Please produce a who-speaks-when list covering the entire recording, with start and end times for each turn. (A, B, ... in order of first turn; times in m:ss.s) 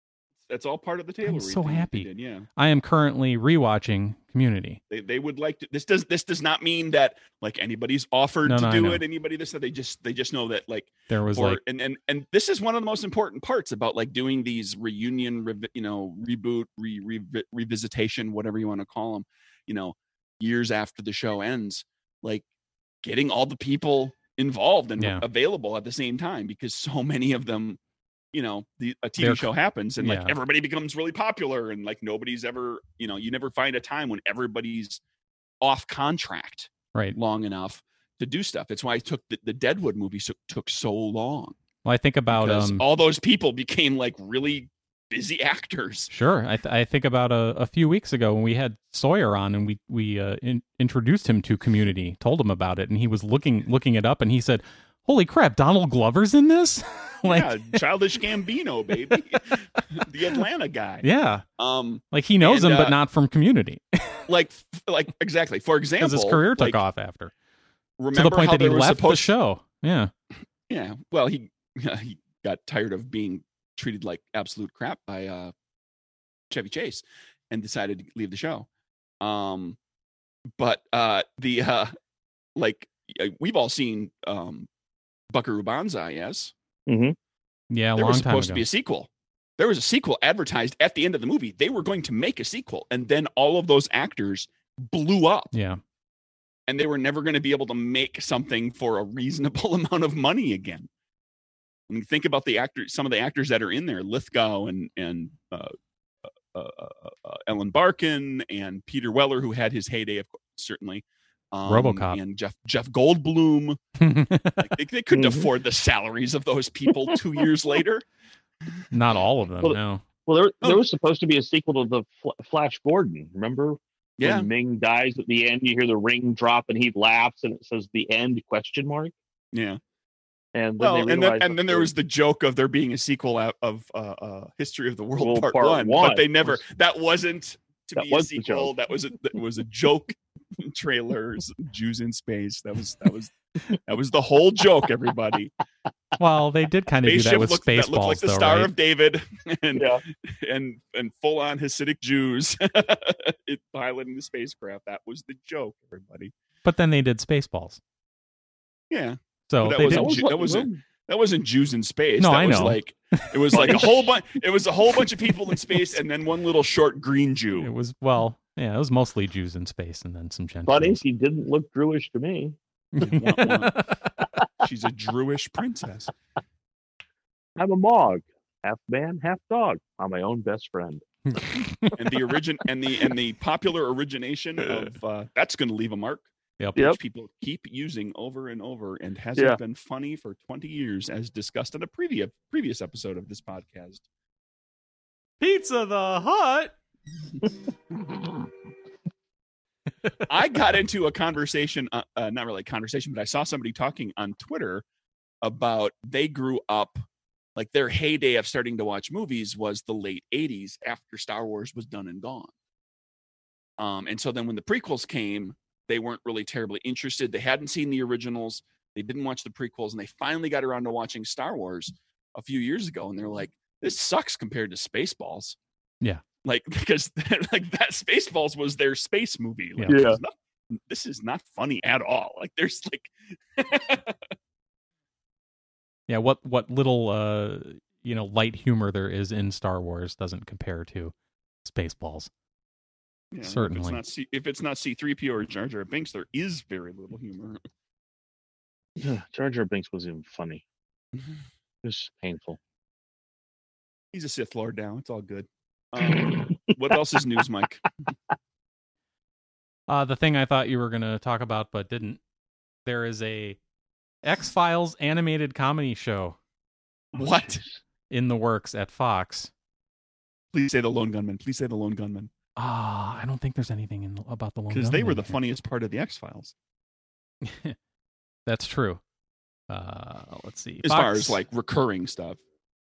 0:00.5-0:02.4 A
0:01.2-0:04.8 B
0:04.9-0:22.4 A
0:08.4-0:09.0 B
0:11.1-0:11.6 B
0:23.0-0:27.8 A
0:28.3-0:35.0 A
0:29.2-0:30.3 B
0:35.6-0:41.6 A
0:41.8-0:42.8 B
0:42.3-0:46.1 A
0:46.1-0:57.8 B
0:57.2-1:01.0 A
1:01.0-1:01.4 B
1:01.6-1:03.0 A
1:02.1-1:04.2 B
1:04.3-1:06.8 A
1:06.0-1:07.3 B
1:08.0-1:09.3 A
1:08.1-1:10.1 B
1:10.7-1:15.5 A
1:16.5-1:18.7 A
1:19.2-1:19.8 A
1:20.6-1:21.9 A
1:22.6-1:24.7 A
1:25.3-1:26.5 A
1:26.9-1:27.2 C
1:27.7-1:28.6 B
1:28.0-1:35.5 A
1:35.5-1:35.8 B
1:36.7-1:40.9 A
1:41.9-1:45.7 A
1:46.5-1:53.8 A
1:51.7-1:52.2 B
1:54.0-1:54.7 B
1:54.6-1:58.0 A
1:55.1-1:55.5 C
1:58.9-2:00.0 B
1:59.6-2:09.1 C
2:04.2-2:04.5 A
2:09.5-2:09.8 A
2:10.5-2:11.9 C
2:10.8-2:25.5 A
2:15.2-2:16.6 C
2:18.0-2:18.7 C
2:26.2-2:28.7 B
2:27.0-2:36.3 A
2:29.7-2:30.0 C
2:36.6-2:37.8 B
2:38.9-2:47.7 A
2:39.5-2:40.1 B
2:39.8-2:40.8 C
2:42.2-2:43.7 B
2:43.5-2:44.1 C
2:47.6-2:51.0 B
2:50.7-2:52.6 C
2:52.9-2:54.0 B
2:53.0-2:53.8 A
2:54.6-2:56.1 A
2:57.6-3:01.0 C
3:01.3-3:02.0 B
3:02.0-3:14.0 A
3:15.4-3:16.7 B
3:20.3-3:24.8 A
3:25.4-3:27.0 A
3:27.6-3:32.5 A
3:33.8-3:45.6 A
3:46.4-3:54.3 A
3:49.9-3:50.2 C
3:56.1-4:01.1 B
4:01.6-4:02.3 B
4:03.3-4:07.6 A
4:03.4-4:04.0 B
4:09.0-4:10.6 C
4:11.8-4:12.6 C
4:14.1-4:17.8 A
4:16.0-4:16.7 C
4:19.9-4:22.2 B
4:22.8-4:23.6 B
4:24.2-4:26.4 B
4:27.1-4:27.6 A
4:28.1-4:29.5 B
4:30.5-4:32.3 A
4:32.6-4:35.3 B
4:34.7-4:36.5 A
4:37.4-4:37.8 B
4:38.4-4:39.0 B
4:39.7-4:41.4 B
4:40.8-4:42.4 A